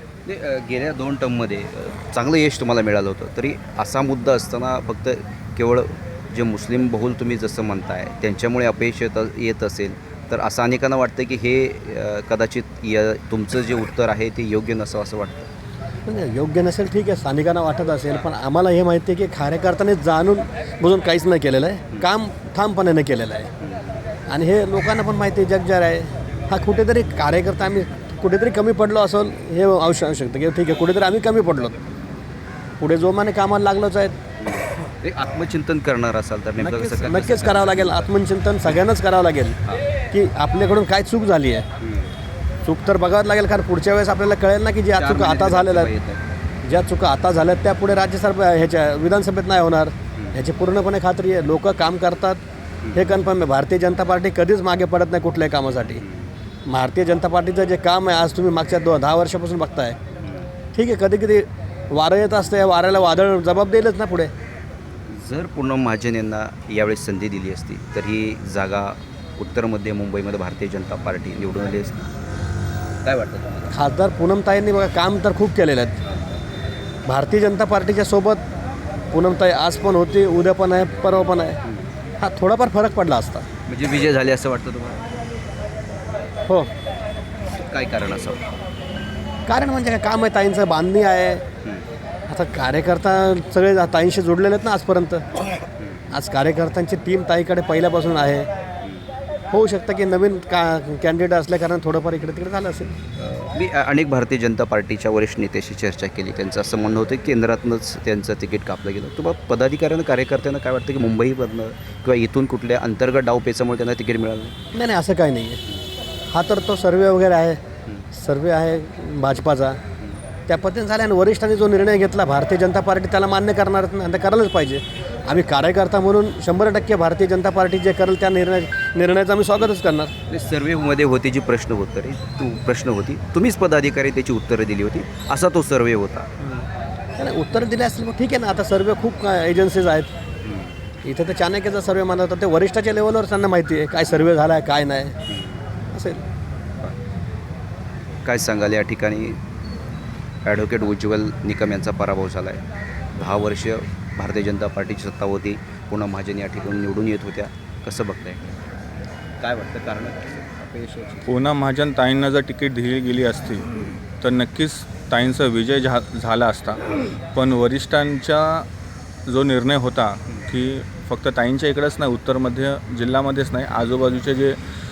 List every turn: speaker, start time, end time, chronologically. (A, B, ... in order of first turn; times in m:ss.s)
0:00.3-0:15.5 A
0:16.1-0:23.5 B
0:23.6-0:24.0 A
0:24.3-0:31.8 B
0:32.8-0:34.1 B
0:34.4-0:38.1 A
0:36.6-0:39.6 B
0:40.1-0:41.7 B
0:41.8-0:42.1 A
0:42.6-0:45.9 B
0:44.9-0:46.2 A
0:46.6-0:52.4 B
0:50.2-0:50.4 A
0:52.8-0:53.1 A
0:52.9-0:56.0 B
0:56.0-0:56.3 A
0:56.7-1:00.0 B
1:00.2-1:00.5 A
1:00.7-1:04.3 B
1:05.1-1:12.1 A
1:13.0-1:13.7 A
1:13.7-1:16.0 B
1:17.1-1:18.4 B
1:19.1-1:21.6 B
1:22.2-1:23.5 B
1:23.7-1:25.0 A
1:27.5-1:28.5 A
1:29.5-1:31.4 B
1:32.3-1:35.3 B
1:35.8-1:36.2 A
1:36.1-1:38.5 B
1:38.8-1:39.1 A
1:39.5-1:43.0 B
1:43.3-1:54.6 A
1:54.7-1:55.6 B
1:56.3-1:57.6 B
1:58.1-1:59.8 B
2:00.5-2:10.1 B
2:10.3-2:16.3 A
2:16.4-2:20.1 B
2:20.4-2:20.7 A
2:21.0-2:25.2 B
2:25.3-2:25.6 A
2:25.9-2:26.2 B
2:28.2-2:29.4 A
2:30.5-2:32.6 A
2:33.2-2:38.5 A
2:39.4-2:41.3 A
2:41.3-2:43.7 C
2:44.2-2:46.8 C
2:47.3-2:48.7 C
2:49.3-2:54.6 C